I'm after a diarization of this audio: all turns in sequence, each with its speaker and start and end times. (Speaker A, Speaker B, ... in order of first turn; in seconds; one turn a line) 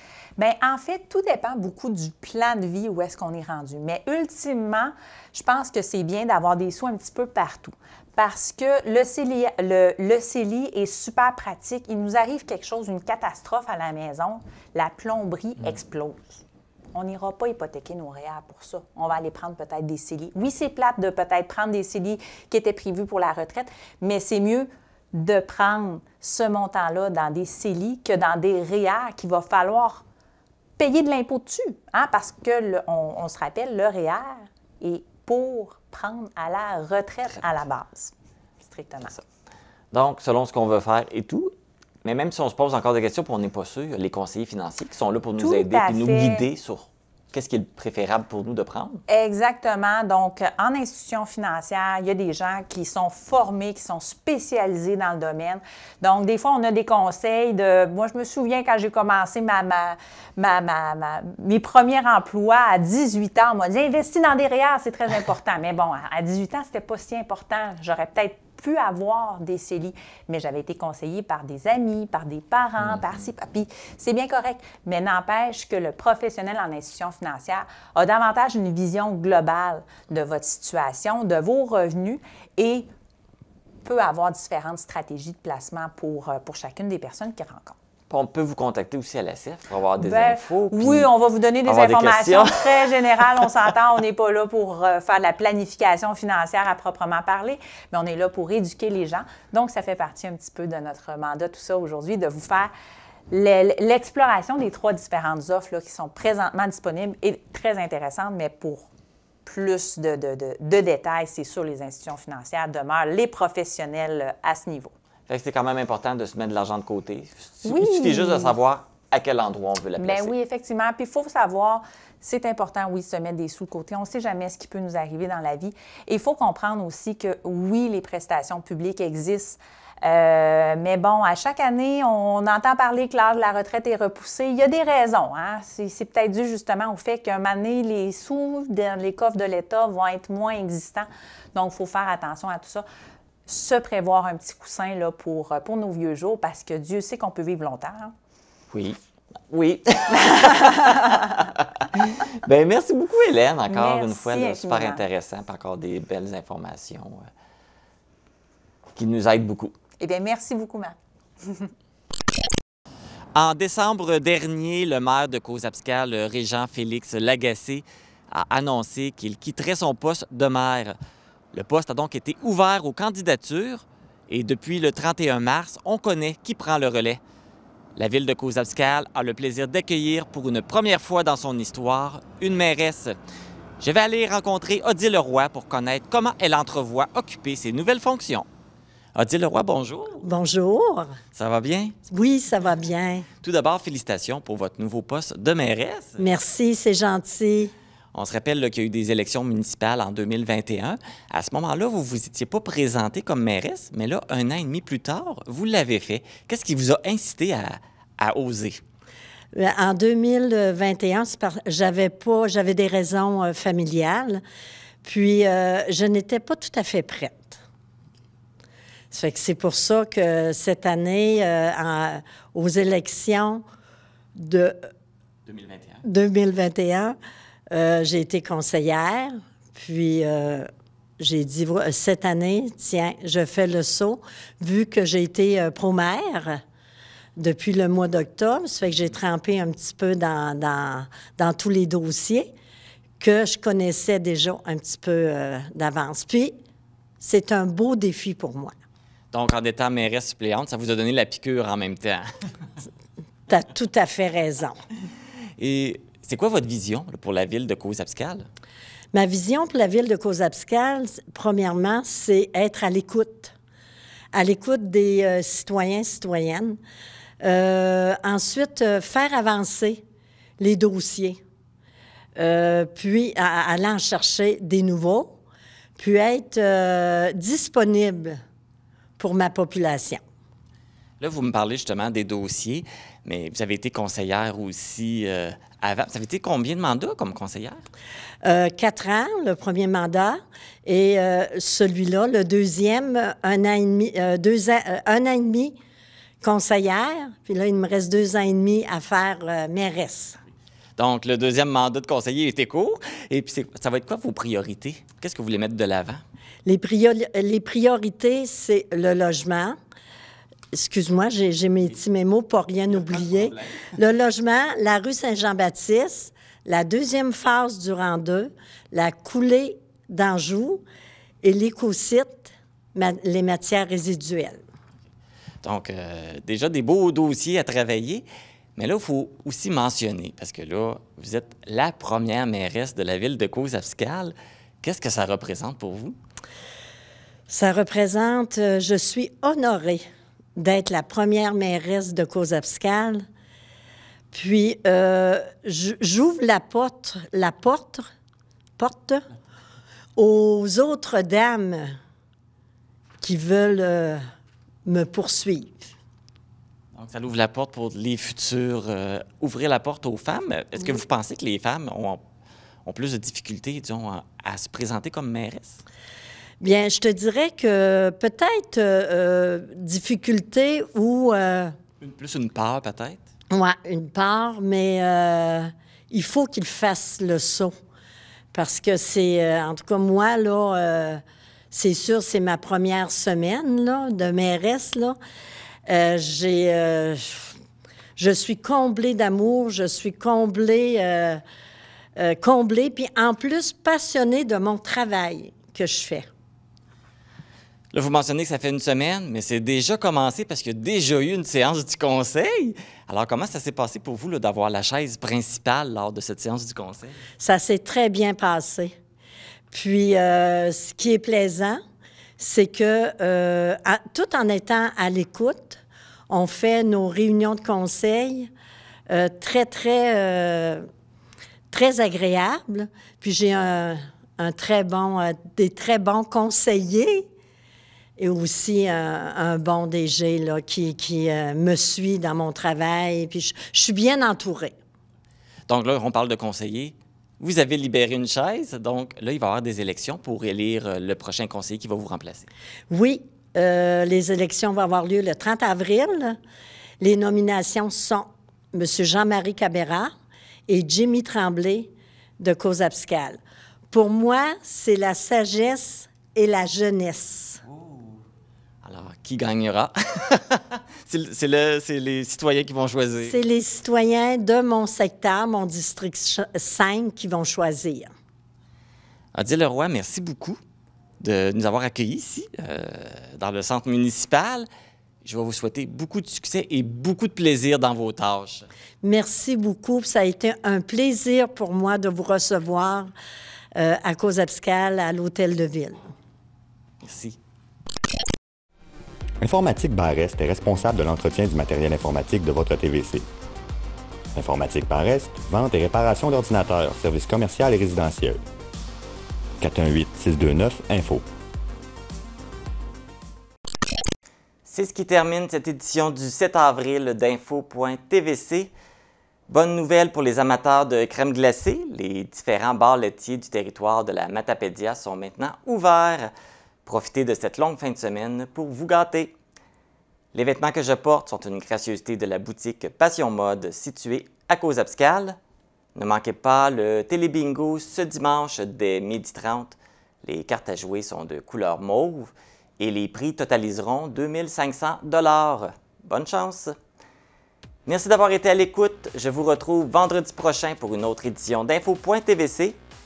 Speaker A: 0.4-16.4
Speaker A: 16.9-30.0
Speaker A: 30.8-39.1
Speaker B: 39.9-41.5
Speaker B: 42.0-49.0
Speaker A: 45.4-46.4
Speaker A: 49.1-82.9
Speaker B: 72.8-73.2
Speaker A: 83.8-87.8
Speaker B: 88.1-91.1
Speaker A: 90.0-102.7
Speaker B: 91.6-93.4
Speaker A: 103.3-108.9
Speaker A: 109.5-114.9
Speaker B: 115.3-120.3
Speaker A: 117.7-118.5
Speaker A: 120.0-142.8
Speaker A: 143.5-148.1
Speaker B: 148.7-149.0
Speaker B: 149.5-157.3
Speaker A: 153.7-155.0
Speaker B: 158.9-159.7
Speaker A: 160.0-161.7
Speaker B: 163.3-170.9
Speaker B: 171.5-177.2
Speaker B: 177.9-183.2
Speaker B: 183.8-188.5
Speaker B: 189.1-190.2
Speaker C: 190.2-191.2
Speaker B: 191.3-191.9
Speaker C: 192.1-193.2
Speaker B: 193.4-196.2
Speaker C: 196.2-197.7
Speaker B: 198.1-208.8
Speaker C: 209.5-214.4
Speaker C: 215.0-217.6
Speaker C: 219.1-223.6
Speaker C: 224.4-224.8
Speaker B: 225.5-226.0
Speaker C: 226.0-227.2
Speaker C: 227.7-230.7
Speaker C: 231.2-236.6
Speaker C: 237.4-242.5
Speaker C: 243.2-246.6
Speaker C: 247.2-248.7
Speaker B: 249.3-252.3
Speaker C: 253.5-254.8
Speaker B: 255.6-258.5
Speaker C: 259.1-263.5
Speaker C: 264.3-266.8
Speaker C: 267.4-270.0
Speaker C: 270.6-271.4
Speaker C: 272.4-275.4
Speaker C: 276.0-278.4
Speaker C: 279.2-280.2
Speaker B: 281.2-287.8
Speaker C: 288.4-295.7
Speaker C: 296.4-300.4
Speaker B: 301.0-306.2
Speaker C: 306.6-309.8
Speaker C: 310.7-320.8
Speaker B: 312.9-313.8
Speaker C: 321.4-324.6
Speaker B: 325.6-336.1
Speaker C: 337.5-340.0
Speaker C: 340.6-343.2
Speaker C: 344.3-348.1
Speaker C: 348.8-349.3
Speaker C: 350.2-351.9
Speaker C: 353.2-354.2
Speaker C: 354.9-355.9
Speaker B: 356.9-362.2
Speaker B: 362.9-365.8
Speaker C: 366.6-371.7
Speaker B: 372.0-373.2
Speaker C: 373.5-377.7
Speaker C: 378.5-385.2
Speaker C: 385.9-387.4
Speaker C: 388.2-391.4
Speaker C: 392.2-396.3
Speaker B: 397.9-407.2
Speaker C: 407.4-408.9
Speaker C: 409.7-411.8
Speaker C: 412.4-418.5
Speaker C: 419.1-420.9
Speaker C: 421.7-427.3
Speaker C: 428.2-434.7
Speaker B: 435.7-442.5
Speaker C: 442.9-446.4
Speaker C: 447.0-450.1
Speaker C: 450.7-457.6
Speaker B: 457.6-458.2
Speaker B: 458.8-463.4
Speaker C: 463.2-468.1
Speaker B: 469.3-470.6
Speaker B: 471.2-474.7
Speaker B: 475.2-478.7
Speaker C: 479.0-483.1
Speaker C: 483.8-486.1
Speaker B: 487.0-487.4
Speaker D: 489.4-493.2
Speaker D: 494.3-498.4
Speaker D: 499.6-501.2
Speaker B: 504.7-508.7
Speaker B: 509.5-516.3
Speaker B: 516.9-519.3
Speaker B: 520.3-525.4
Speaker B: 525.9-536.8
Speaker B: 537.9-542.8